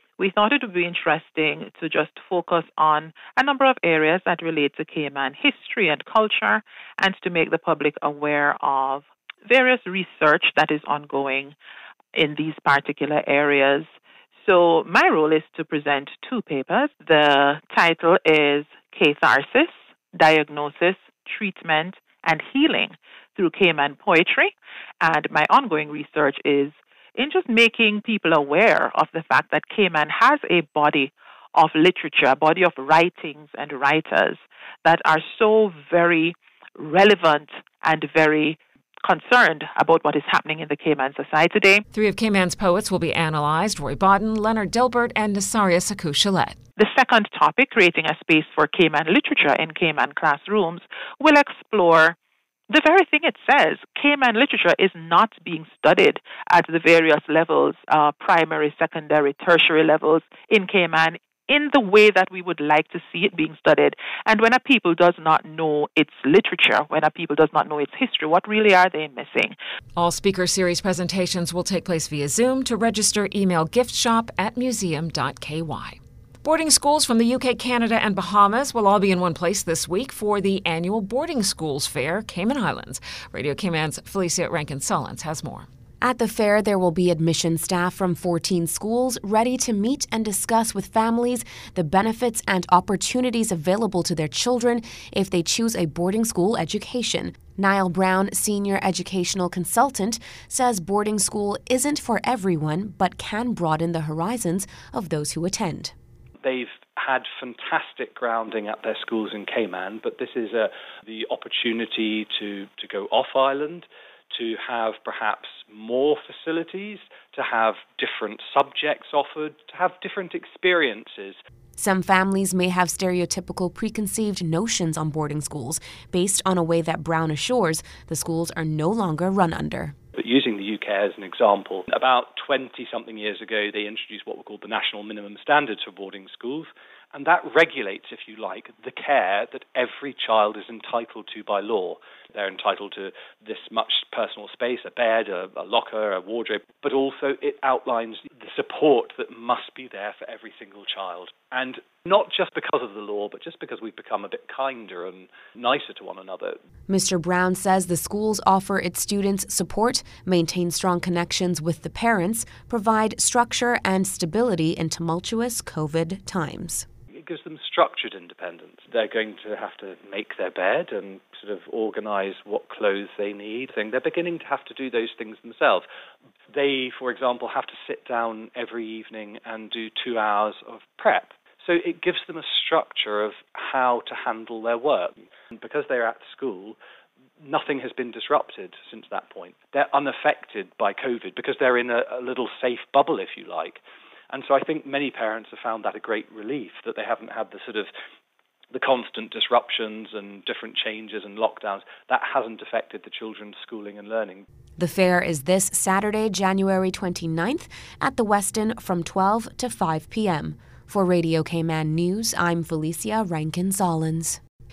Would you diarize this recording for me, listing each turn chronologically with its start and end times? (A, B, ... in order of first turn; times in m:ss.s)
0:00.2-0:11.5 A
0:12.1-0:13.9 A
0:14.4-0:41.8 A
0:41.9-0:46.6 B
0:46.8-0:52.2 A
0:52.7-1:09.5 A
1:10.0-1:25.7 B
1:26.0-1:45.9 C
1:46.4-2:01.4 D
2:01.8-2:09.9 C
2:10.2-2:36.6 D
2:36.9-2:46.8 C
2:47.2-2:55.8 D
2:56.5-3:06.8 D
3:07.4-3:13.8 D
3:14.3-3:17.9 D
3:18.7-3:24.4 D
3:24.8-3:34.4 C